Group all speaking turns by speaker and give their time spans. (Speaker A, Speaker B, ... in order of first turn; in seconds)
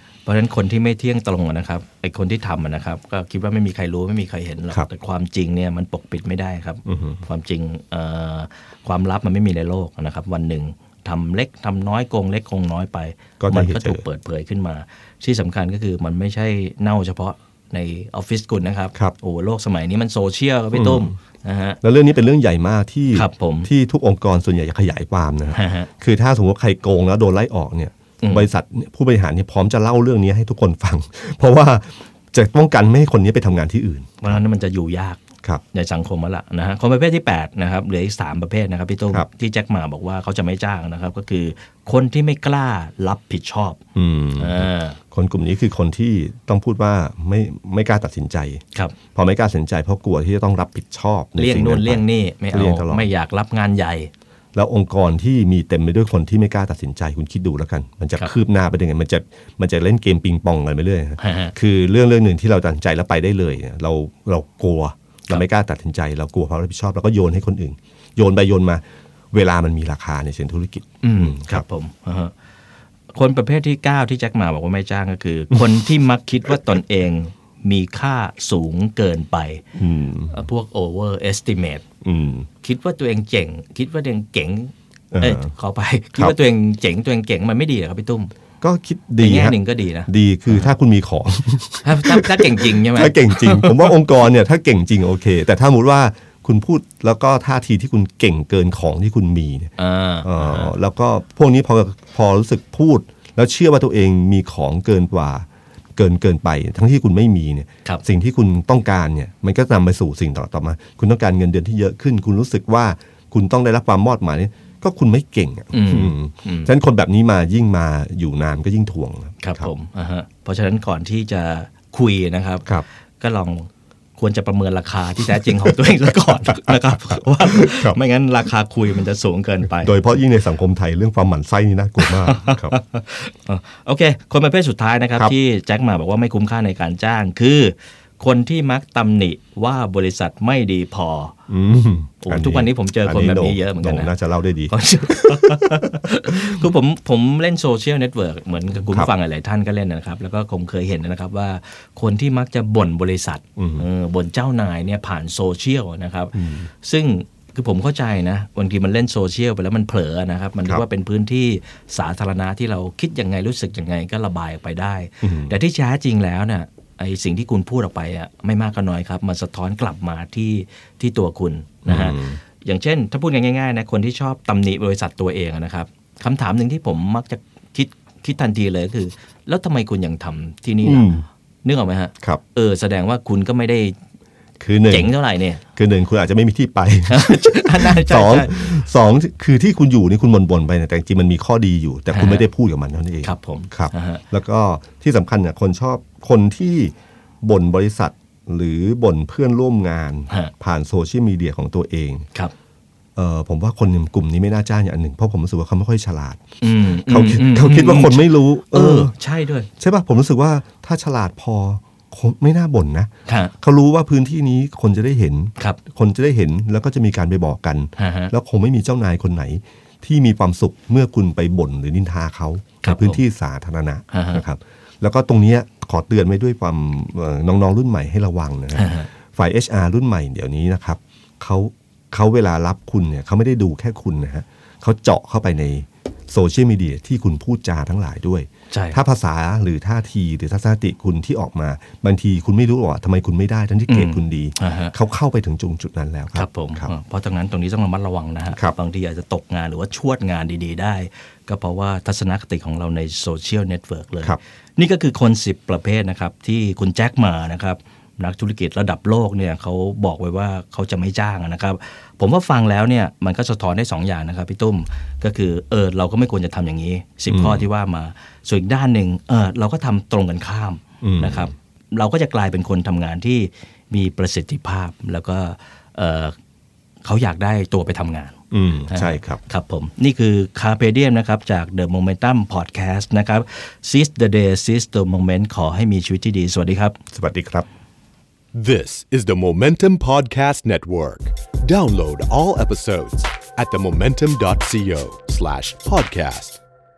Speaker A: 0.2-21.8, 23.1-23.7, 25.5-25.9, 28.2-28.5, 34.2-35.2, 35.7-43.8, 44.4-45.0, 51.4-54.1, 61.2-61.5, 71.0-72.3, 73.1-79.6, 80.3-81.8, 82.6-88.3, 89.2-90.7, 91.8-93.9, 99.8-100.8, 115.7-116.7, 119.4-122.7, 123.2-129.9, 132.0-141.3, 142.2-144.1, 144.7-181.1, 181.6-184.0, 184.9-185.6, 187.1-188.7, 192.1-192.5, 193.2-194.2, 206.6-209.7, 213.3-213.5, 218.0-218.3, 222.8-223.2, 224.1-224.4, 228.7-229.1, 238.7-239.0, 243.9-244.9, 246.3-276.4, 277.0-278.4, 278.9-287.0
Speaker B: 6.8-7.2, 13.4-14.0, 20.7-21.1, 21.8-34.4, 43.9-48.6, 49.1-53.1, 54.5-71.6, 79.7-80.3, 82.0-82.5, 85.1-85.5, 88.6-99.7, 100.2-119.7, 126.5-128.0, 129.8-132.7, 141.5-146.6, 153.6-153.8, 156.3-156.7, 165.2-165.5, 171.8-172.4, 180.8-181.2, 184.6-185.1, 185.7-202.3, 203.2-209.1, 209.8-246.9, 267.3-267.6, 271.0-271.5, 278.5-279.4, 287.1-287.7
Speaker C: 288.5-296.6